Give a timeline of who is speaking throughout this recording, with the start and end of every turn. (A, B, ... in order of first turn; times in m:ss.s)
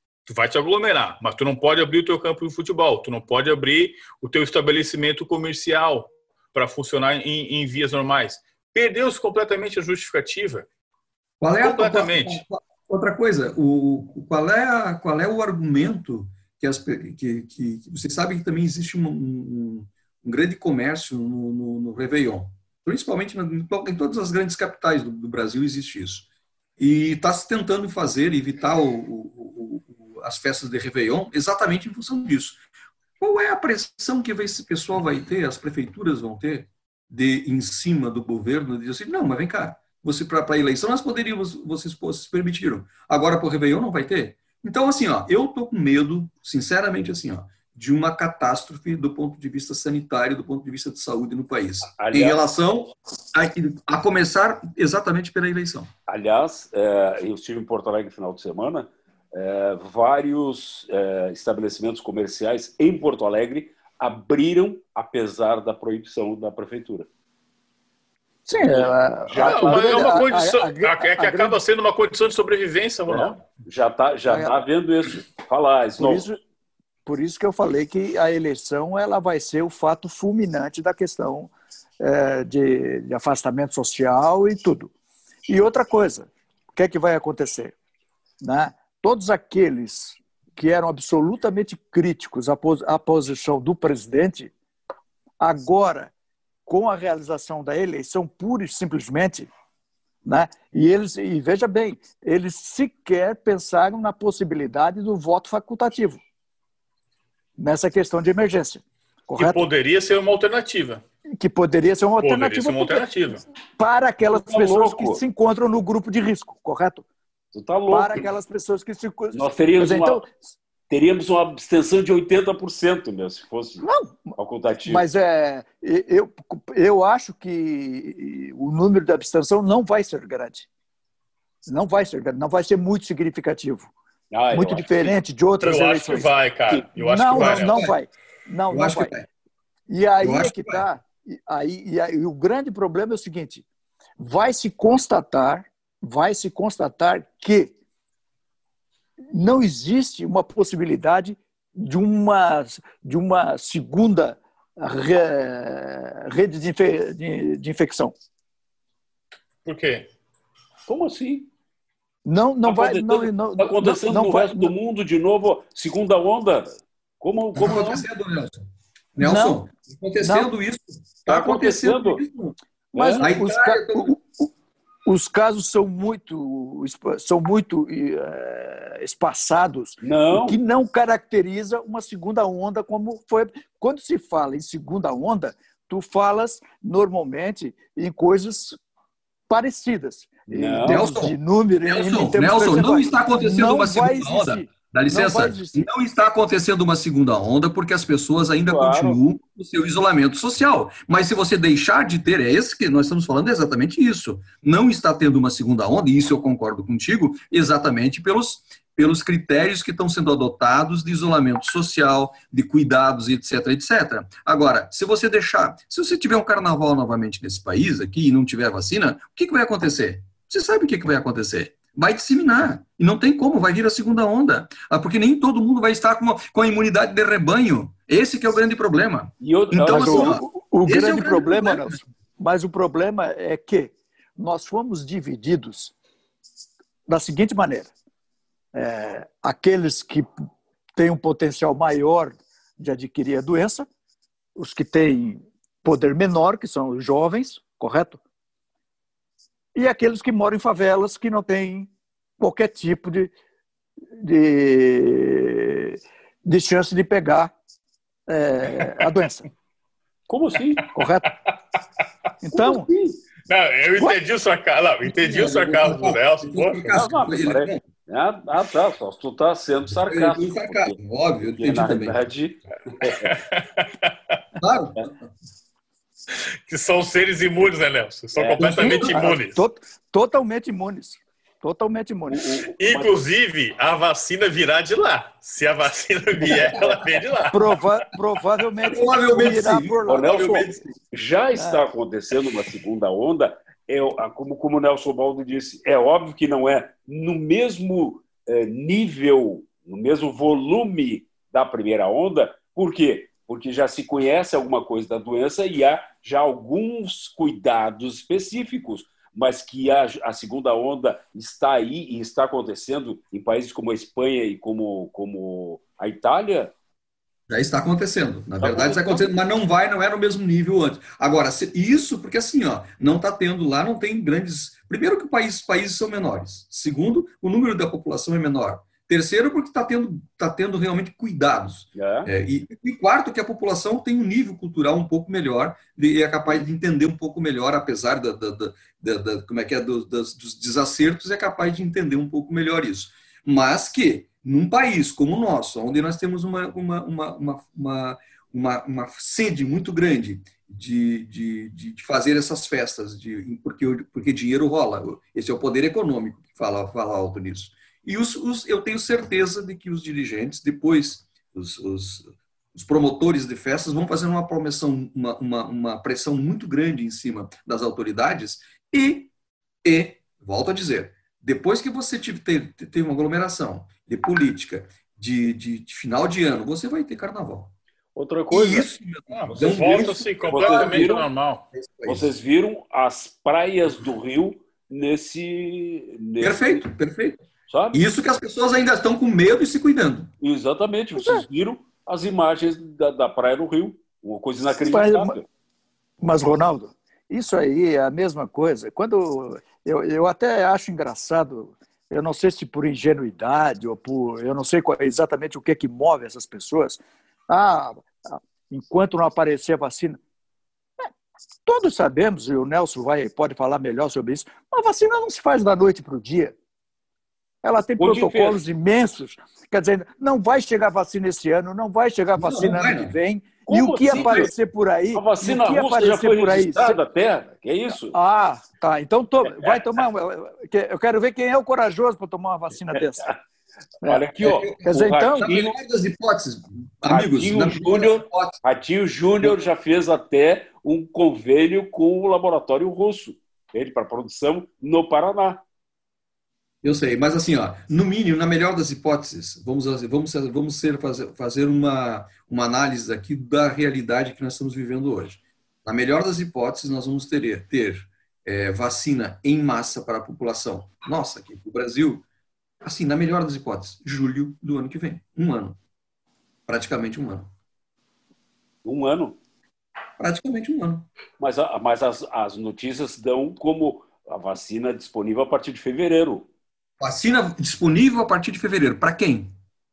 0:00.3-0:10.7 A
0:11.4-0:26.3 B
0:11.6-0:12.4 A
0:26.8-0:32.6 B
0:33.2-0:55.9 B
0:51.9-0:52.4 C
0:56.1-1:07.1 C
1:08.5-1:11.6 D
1:08.7-1:10.2 C
1:09.4-1:13.4 A
1:13.1-1:16.2 C
1:14.3-1:14.6 D
1:16.0-1:16.4 D
1:17.0-1:24.9 D
1:25.5-1:27.8 D
1:28.4-1:34.5 D
1:35.4-1:36.1 D
1:36.7-1:39.5 D
1:40.2-1:46.2 D
1:47.6-1:49.6 D
1:49.4-1:51.0 A
1:51.4-1:53.2 D
1:52.2-1:53.4 A
1:53.8-1:57.0 D
1:54.2-1:55.2 C
1:57.5-1:58.3 C
1:57.9-2:00.3 D
1:59.3-2:00.2 C
2:00.9-2:05.0 C
2:03.8-2:04.3 D
2:04.9-2:10.7 D
2:11.7-2:13.9 D
2:14.3-2:15.2 C
2:14.5-2:16.3 D
2:15.6-2:17.9 A
2:17.0-2:19.1 D
2:18.7-2:19.3 B
2:19.9-2:23.6 D
2:20.2-2:20.8 B
2:24.2-2:27.7 D
2:29.3-2:38.1 D
2:39.6-2:40.1 A
2:40.9-2:41.5 C
2:42.3-2:44.7 D
2:42.6-2:48.1 C
2:47.6-2:48.6 B
2:49.2-2:52.6 B
2:49.2-2:49.6 D
2:50.2-2:50.5 D
2:51.3-2:52.2 C
2:52.9-2:54.5 D
2:53.0-2:53.3 C
2:53.2-2:54.2 B
2:55.1-3:08.8 D
3:00.0-3:00.6 C
3:09.5-3:15.9 D
3:10.5-3:11.0 C
3:10.9-3:11.4 B
3:11.9-3:52.0 B
3:18.7-3:19.2 C
3:49.4-3:50.4 C
3:49.8-3:55.9 D
3:57.1-3:57.9 D
3:58.7-4:00.4 D
4:01.0-4:03.9 D
4:04.6-4:08.2 D
4:09.8-4:11.9 D
4:12.4-4:13.3 D
4:14.2-4:17.5 D
4:18.3-4:19.5 D
4:20.3-4:20.9 C
4:20.9-4:21.3 D
4:22.4-4:22.9 D
4:23.5-4:27.0 A
4:25.0-4:27.8 B
4:26.9-4:31.0 C
4:30.0-4:32.2 B
4:31.6-4:33.3 C
4:33.2-4:34.4 A
4:34.6-4:35.1 B
4:36.7-4:39.6 A
4:38.4-4:39.2 C
4:38.6-4:39.0 B
4:38.8-4:42.6 D
4:42.3-4:43.2 C
4:42.8-4:47.6 A
4:46.4-4:47.0 C
4:47.5-4:50.8 D
4:48.9-4:51.0 B
4:50.1-5:16.7 C
4:51.6-4:51.8 D
5:17.5-6:09.3 B
5:18.6-5:19.3 C
5:32.0-5:32.3 C
6:09.8-6:17.7 B
6:18.2-6:18.9 C
6:18.5-6:22.3 B
6:19.3-6:21.6 A
6:20.5-6:21.3 C
6:22.0-6:26.8 C
6:26.4-6:30.3 B
6:27.7-6:28.0 C
6:30.4-6:35.5 C
6:34.9-6:35.4 D
6:36.2-6:50.2 D
6:51.7-6:56.5 D
6:57.6-7:07.0 D
6:58.0-6:58.6 C
7:02.4-7:03.1 B
7:03.7-7:04.5 C
7:04.1-7:04.5 B
7:05.1-7:08.2 C
7:08.1-7:13.3 D
7:14.0-7:15.7 C
7:14.4-7:14.8 B
7:14.8-7:15.5 D
7:15.4-7:18.6 B
7:17.1-7:25.6 C
7:26.8-7:42.2 B
7:42.8-7:45.8 B
7:46.7-7:47.5 B
7:48.8-7:49.4 C
7:50.2-7:51.1 B
7:51.4-7:56.5 C
7:57.0-7:59.5 B